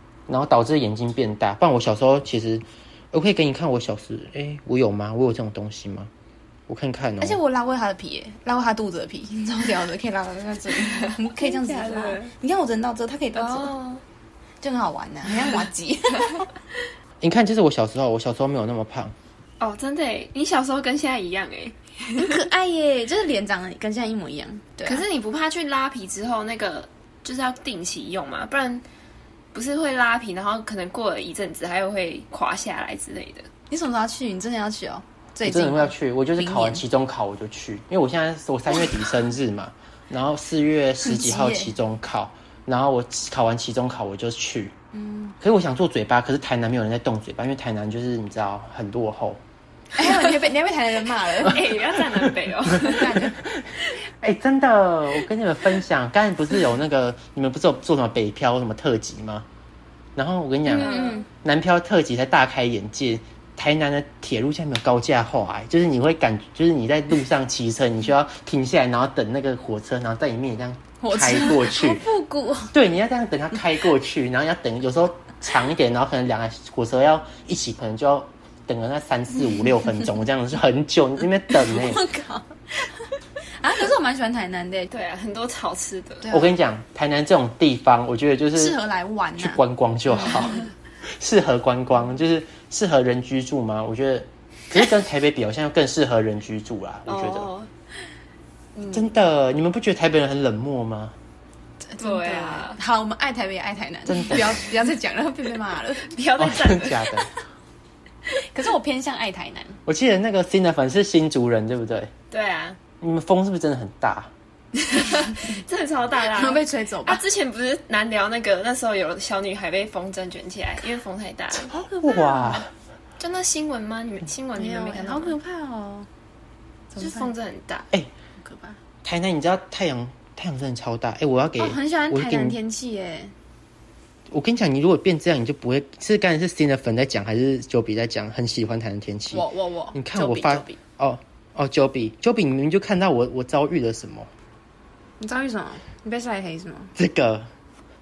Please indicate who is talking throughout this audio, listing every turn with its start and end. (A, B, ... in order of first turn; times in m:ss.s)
0:00.3-0:06.1 A
0:06.7-0:07.4 A
0:07.2-0:13.7 B
0:10.9-0:12.3 C
0:13.3-0:14.0 C
0:14.6-0:16.5 B
0:17.2-0:19.1 A
0:19.6-0:22.4 C
0:22.2-0:25.0 B
0:24.8-0:28.8 C
0:29.5-0:33.5 C
0:33.7-0:36.8 B
0:35.4-0:44.8 A
0:41.0-0:41.7 B
0:44.9-0:45.4 B
0:45.4-0:49.4 A
0:50.0-0:51.8 B
0:51.4-0:53.3 C
0:52.2-0:59.5 A
0:52.8-0:53.4 B
1:00.2-1:12.0 A
1:00.7-1:01.3 B
1:00.8-1:01.2 C
1:11.0-1:12.7 B
1:12.7-1:22.1 A
1:21.6-1:24.9 B
1:24.9-1:26.3 C
1:26.3-1:28.8 A
1:28.6-1:30.6 B
1:29.4-1:30.6 A
1:31.2-1:37.5 A
1:37.1-1:37.7 C
1:38.8-1:39.0 C
1:38.9-1:41.2 A
1:41.8-1:46.1 B
1:42.0-1:42.8 C
1:44.1-1:44.5 A
1:46.0-1:47.0 C
1:46.4-1:47.3 A
1:48.3-1:49.8 B
1:49.9-1:52.1 A
1:52.3-1:52.8 C
1:53.0-1:54.3 A
1:54.8-2:01.7 C
1:56.3-1:57.2 B
2:01.6-2:02.7 A
2:01.7-2:02.6 B
2:03.2-2:05.4 C
2:04.6-2:06.1 B
2:06.9-2:07.3 B
2:07.0-2:07.9 C
2:08.4-2:08.8 B
2:09.0-2:12.6 A
2:11.6-2:13.3 B
2:14.3-2:24.3 A
2:19.3-2:20.8 B
2:25.2-2:26.9 B
2:27.0-2:27.5 A